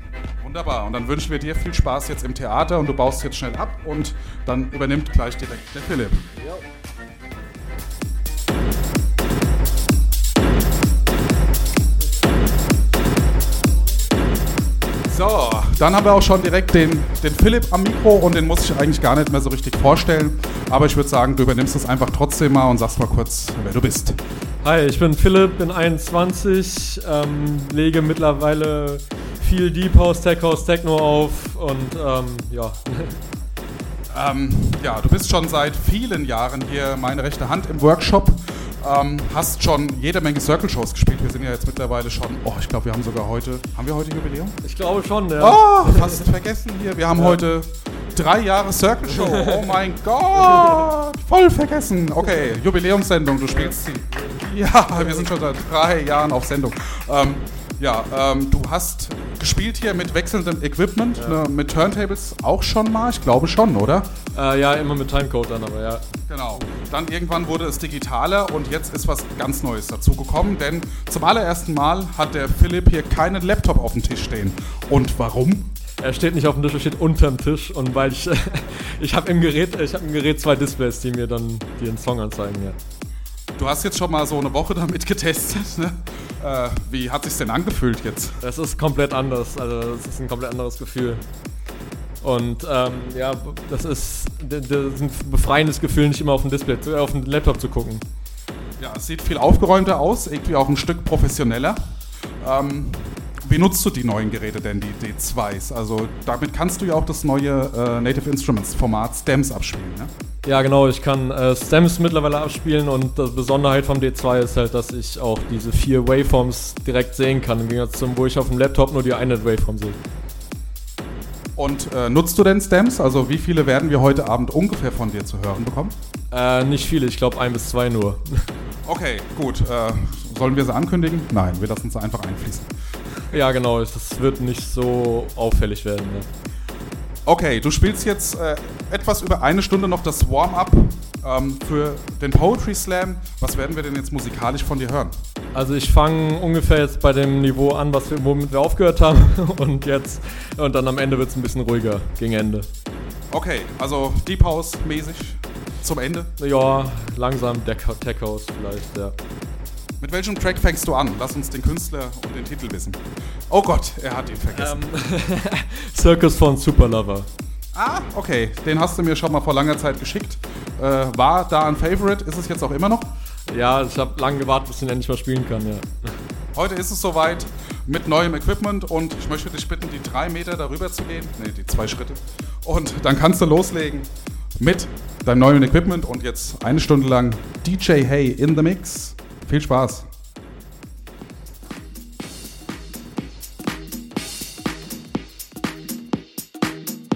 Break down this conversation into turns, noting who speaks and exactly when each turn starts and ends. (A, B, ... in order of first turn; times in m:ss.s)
0:00.4-0:06.2 A
0:15.1-0:24.2 A
0:24.6-0:33.2 B
0:34.1-0:44.6 A
0:44.6-0:46.2 B
0:45.4-1:04.1 A
0:47.1-0:47.4 B
0:49.1-0:49.8 B
0:50.4-0:50.9 B
0:52.2-0:52.5 B
0:53.5-0:55.2 B
1:04.3-1:06.0 B
1:06.3-1:15.7 A
1:16.0-1:22.8 B
1:23.6-1:28.4 A
1:28.4-1:31.2 B
1:32.2-1:38.0 B
1:38.8-1:41.8 A
1:42.4-1:50.1 A
1:50.4-2:00.0 B
2:01.6-2:06.0 A
2:06.3-2:08.4 B
2:08.8-2:12.7 A
2:13.3-2:16.3 B
2:17.2-2:25.2 A
2:25.5-2:32.7 B
2:33.3-2:36.3 A
2:36.4-2:39.1 B
2:40.0-2:44.8 A
2:44.5-2:47.3 B
2:47.7-2:53.1 A
2:53.5-2:55.8 B
2:56.5-3:10.1 A